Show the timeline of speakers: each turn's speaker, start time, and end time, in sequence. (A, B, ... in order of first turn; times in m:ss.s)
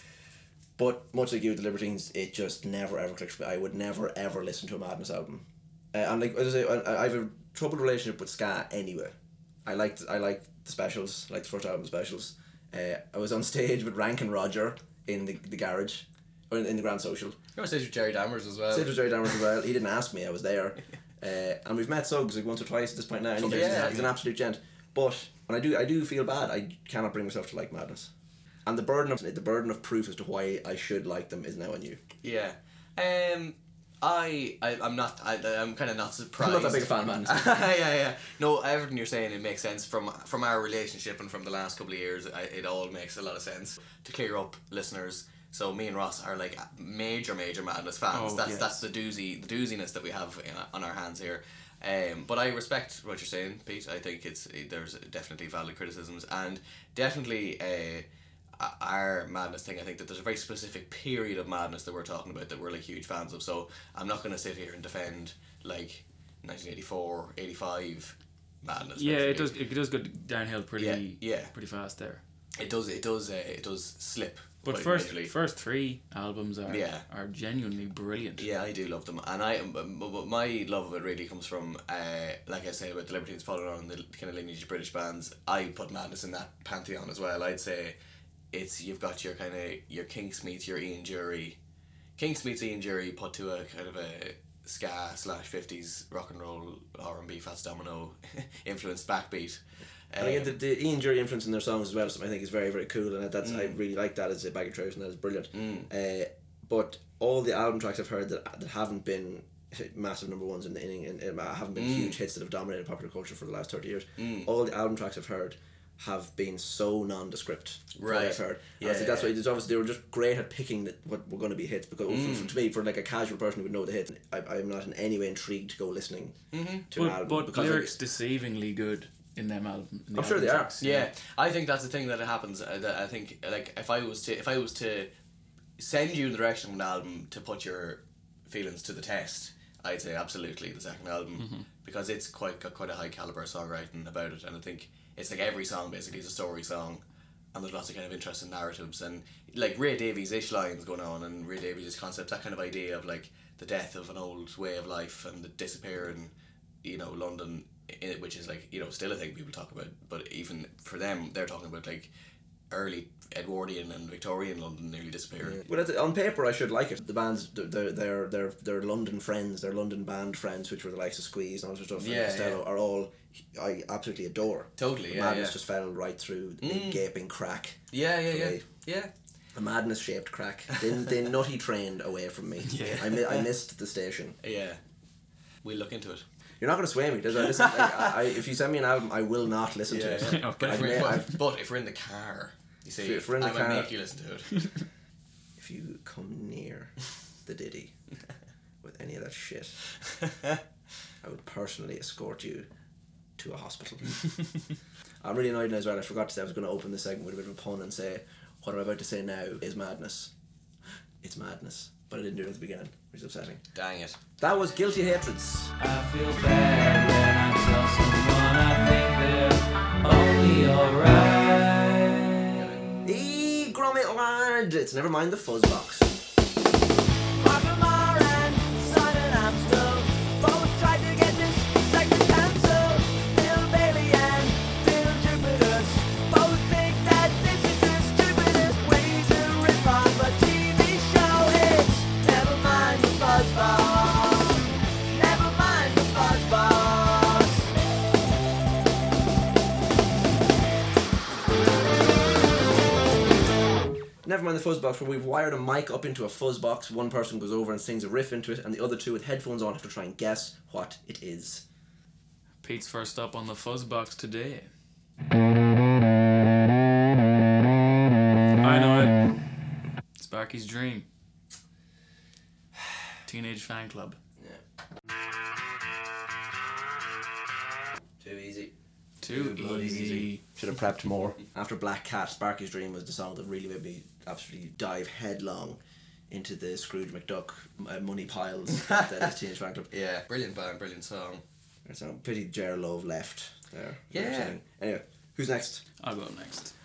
0:00.8-0:09.1 A
0:09.6-0:17.4 A
0:17.6-0:19.0 B
0:18.7-0:28.1 A
0:23.4-0:24.2 B
0:28.6-0:32.0 A
0:32.2-1:09.5 B
0:36.4-0:37.5 A
0:48.1-0:48.8 C
1:09.0-1:12.2 C
1:10.8-1:11.5 B
1:12.6-1:15.3 B
1:14.6-1:18.5 C
1:16.7-1:17.0 B
1:18.4-1:28.0 B
1:28.5-1:31.6 B
1:32.2-1:40.5 B
1:40.2-2:08.0 A
1:43.4-1:43.8 B
1:45.5-1:45.9 B
1:51.8-1:52.2 B
1:54.2-1:54.5 B
1:57.9-1:59.3 B
2:02.1-2:02.5 B
2:06.5-2:06.9 B
2:06.9-2:11.1 C
2:10.1-2:10.7 A
2:10.8-2:15.1 B
2:15.8-2:27.0 B
2:21.4-2:21.6 C
2:27.5-2:42.1 B
2:42.7-2:45.6 B
2:45.5-2:58.6 A
2:52.0-2:52.6 B
2:54.8-2:55.6 B
2:56.6-2:57.0 B
2:57.9-2:59.1 B
2:59.5-3:04.4 A
3:02.7-3:03.1 C
3:02.7-3:03.4 B
3:04.4-3:04.8 B
3:05.6-3:06.2 B
3:06.6-3:11.4 A
3:07.4-3:08.2 B
3:09.9-3:14.7 B
3:10.2-3:11.3 C
3:13.0-3:13.9 A
3:15.6-3:17.9 A
3:18.8-3:19.9 A
3:21.2-3:22.7 A
3:23.4-3:24.2 A
3:25.2-3:30.3 A
3:31.2-3:33.6 A
3:33.7-3:34.2 B
3:34.4-3:35.7 A
3:35.8-3:42.6 D
3:42.5-3:42.9 B
3:43.0-3:46.2 A
3:47.4-4:07.7 A
4:14.2-4:21.6 A
4:22.6-4:24.7 C
4:28.6-4:29.4 C
4:30.2-4:31.1 C
4:33.2-4:34.2 C
4:38.2-4:38.7 A
4:39.2-4:40.4 C
4:39.3-4:45.8 A
4:46.3-4:49.9 A
4:48.7-4:49.3 B
4:49.9-4:51.4 B
4:51.8-4:55.8 A
4:54.1-4:54.6 B
4:56.0-4:56.7 C